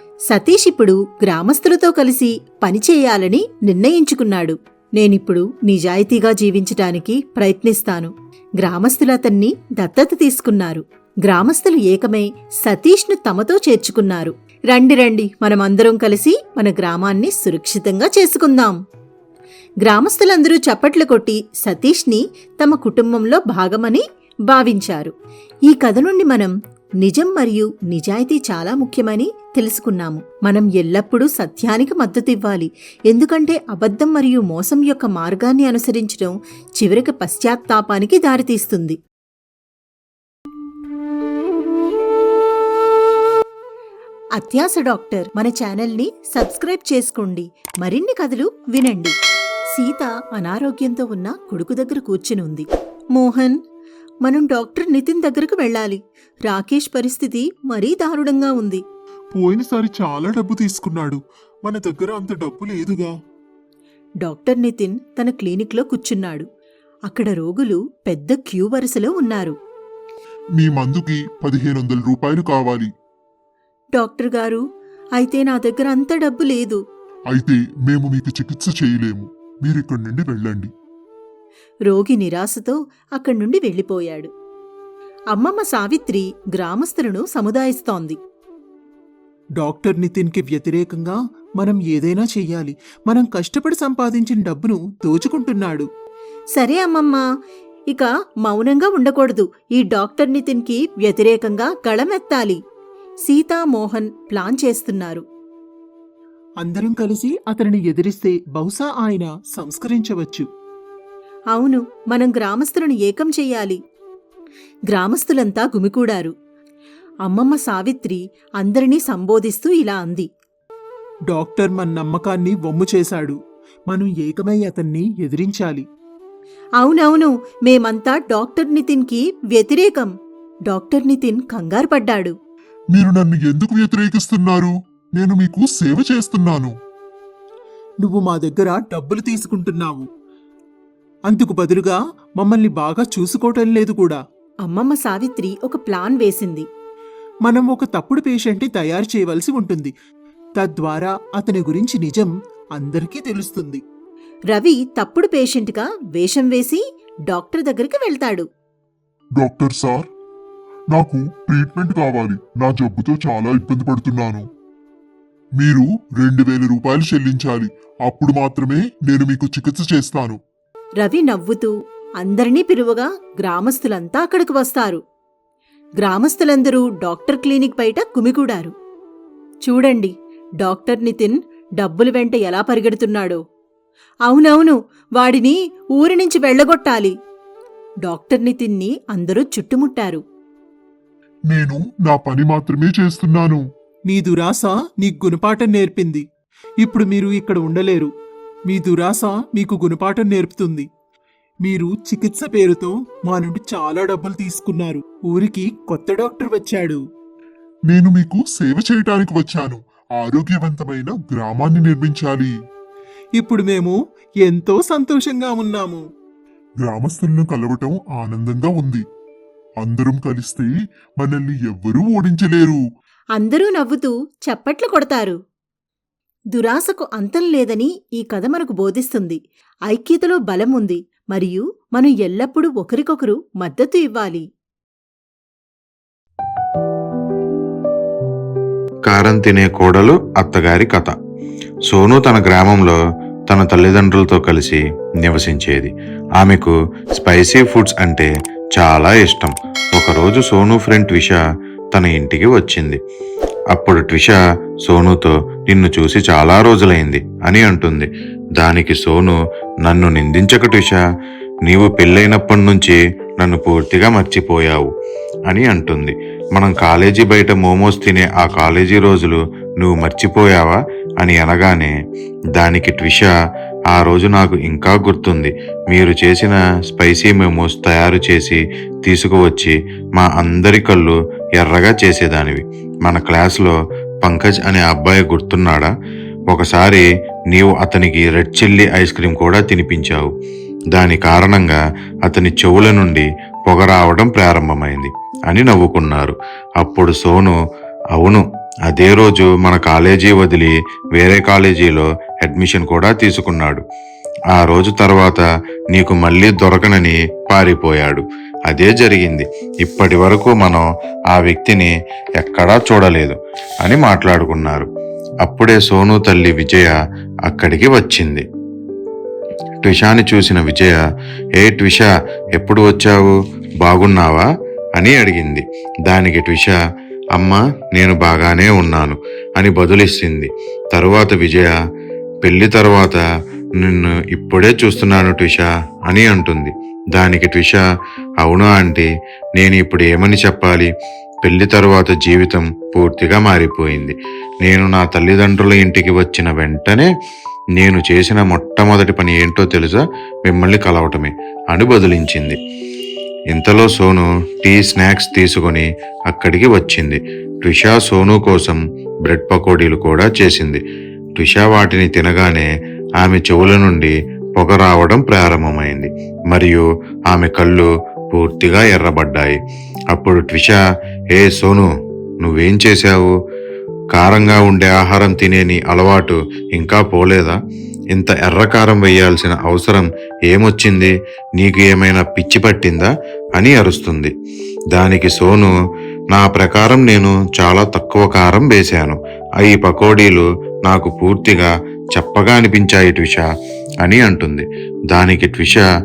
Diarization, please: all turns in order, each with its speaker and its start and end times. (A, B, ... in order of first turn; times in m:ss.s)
0:00.3-0:18.8 A
0:19.8-0:25.1 A
0:25.7-0:39.0 A
0:44.4-0:49.2 A
0:49.7-0:53.6 A
0:54.2-0:58.8 A
0:59.3-1:03.1 B
1:04.2-1:06.4 A
1:07.1-1:09.5 A
1:10.6-1:12.9 C
1:14.0-1:14.6 A
1:15.2-1:16.8 A
1:17.3-1:20.7 C
1:21.9-1:24.3 A
1:25.3-1:28.2 A
1:29.6-1:35.9 B
1:36.5-1:37.2 A
1:37.9-1:42.6 A
1:43.2-1:45.2 A
1:46.6-1:50.5 B
1:51.5-1:53.8 A
1:54.9-1:56.3 A
1:57.2-2:00.3 A
2:01.3-2:05.8 B
2:06.8-2:10.1 A
2:10.7-2:12.3 A
2:12.9-2:16.7 C
2:18.0-2:20.1 B
2:21.3-2:24.2 B
2:24.6-2:26.7 A
2:27.4-2:29.9 B
2:30.6-2:33.8 B
2:34.5-2:38.5 A
2:39.4-2:40.1 C
2:40.9-2:44.4 C
2:45.6-2:50.4 C
2:51.0-2:55.0 A
2:56.0-2:58.7 A
2:59.6-3:03.4 A
3:04.2-3:07.2 A
3:08.0-3:10.2 A
3:11.5-3:13.6 C
3:14.1-3:16.2 B
3:16.8-3:18.1 B
3:18.7-3:20.9 B
3:21.6-3:27.0 B
3:27.9-3:32.5 C
3:33.4-3:36.0 B
3:36.8-3:39.0 C
3:39.8-3:42.8 C
3:43.4-3:45.4 A
3:46.5-3:54.5 A
3:59.1-4:01.1 D
4:01.9-4:11.4 D
4:11.9-4:13.0 D
4:13.7-4:21.0 D
4:21.7-4:24.9 D
4:25.5-4:31.9 D
4:32.6-4:33.3 D
4:33.9-4:45.9 D
4:46.5-4:50.3 D
4:50.9-4:57.6 D
4:58.1-5:03.8 D
5:04.5-5:14.9 D
5:15.4-5:17.0 D
5:17.5-5:18.4 D
5:19.8-5:21.0 D
5:21.6-5:26.8 D
5:27.4-5:31.7 D
5:32.4-5:33.2 D
5:33.8-5:37.8 D
5:38.4-5:40.9 D
5:41.4-5:47.1 D
5:47.8-5:52.6 D
5:53.5-6:00.8 D
6:01.4-6:09.6 D
6:10.1-6:10.8 D
6:11.3-6:13.4 D
6:14.1-6:17.6 D
6:18.1-6:24.3 D
6:24.9-6:25.7 D
6:26.3-6:33.5 D
6:34.0-6:35.8 D